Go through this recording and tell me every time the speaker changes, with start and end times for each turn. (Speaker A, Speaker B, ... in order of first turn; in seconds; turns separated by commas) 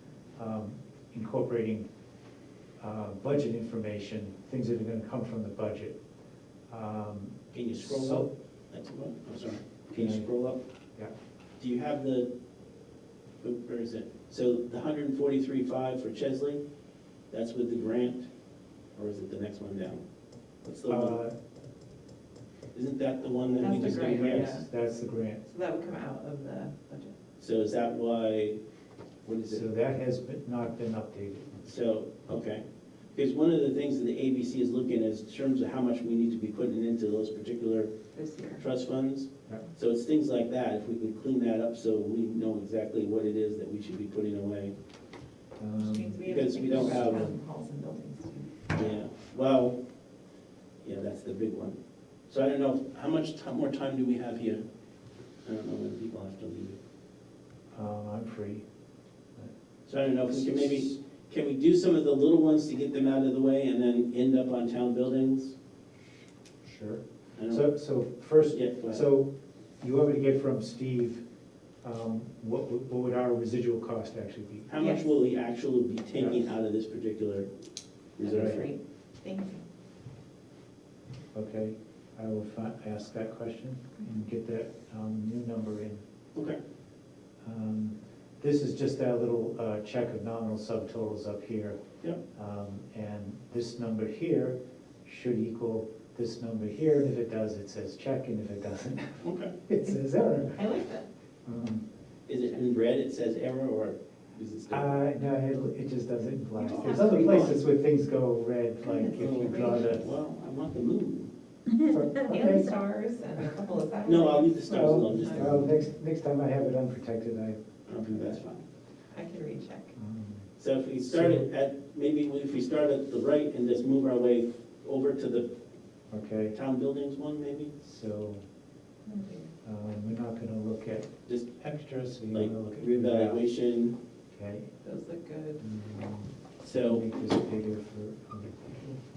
Speaker A: 0.4-1.9, Speaker A: 2.8-6.0, Speaker A: 6.7-8.3, Speaker B: 7.5-10.6, Speaker A: 9.9-10.3, Speaker B: 11.6-12.3, Speaker B: 13.4-16.6, Speaker B: 17.3-18.3, Speaker B: 18.9-20.0, Speaker B: 20.6-21.2, Speaker A: 20.9-21.3, Speaker B: 22.7-24.6, Speaker A: 23.5-25.4, Speaker C: 23.9-24.7, Speaker C: 25.5-27.1, Speaker B: 27.4-28.6, Speaker B: 29.2-29.7, Speaker A: 29.5-31.8, Speaker B: 31.6-32.6, Speaker B: 33.1-37.9, Speaker C: 38.1-38.6, Speaker B: 38.5-44.7, Speaker A: 45.6-46.2, Speaker C: 45.8-48.7, Speaker B: 46.2-47.3, Speaker A: 46.7-47.2, Speaker B: 48.7-49.8, Speaker B: 50.8-51.8, Speaker B: 52.3-54.6, Speaker B: 55.4-56.8, Speaker A: 57.7-58.6, Speaker B: 59.9-65.5, Speaker A: 60.3-60.9, Speaker A: 66.6-69.3, Speaker B: 67.3-67.7, Speaker B: 68.5-69.0, Speaker A: 69.8-71.2, Speaker A: 71.8-74.7, Speaker B: 74.7-77.5, Speaker C: 74.8-75.1, Speaker B: 78.2-78.7, Speaker C: 78.2-79.6, Speaker A: 78.2-78.6, Speaker A: 81.3-86.0, Speaker A: 87.4-91.8, Speaker A: 92.3-100.7, Speaker B: 99.2-99.5, Speaker C: 100.5-101.1, Speaker A: 101.5-101.8, Speaker B: 102.3-105.0, Speaker A: 104.7-110.1, Speaker C: 106.6-107.5, Speaker B: 106.8-107.5, Speaker C: 108.8-110.0, Speaker B: 109.1-111.3, Speaker A: 111.8-112.8, Speaker C: 112.2-115.6, Speaker B: 114.0-115.7, Speaker A: 114.7-118.4, Speaker B: 117.9-118.6, Speaker C: 119.1-119.9, Speaker A: 119.9-120.5, Speaker B: 120.6-125.5, Speaker A: 121.1-121.5, Speaker A: 126.1-126.5, Speaker B: 126.5-127.7, Speaker A: 127.8-128.4, Speaker C: 129.1-129.5, Speaker A: 129.6-133.4, Speaker B: 132.3-133.9, Speaker A: 134.3-134.7, Speaker C: 134.8-135.6, Speaker A: 135.6-139.0, Speaker B: 136.6-137.0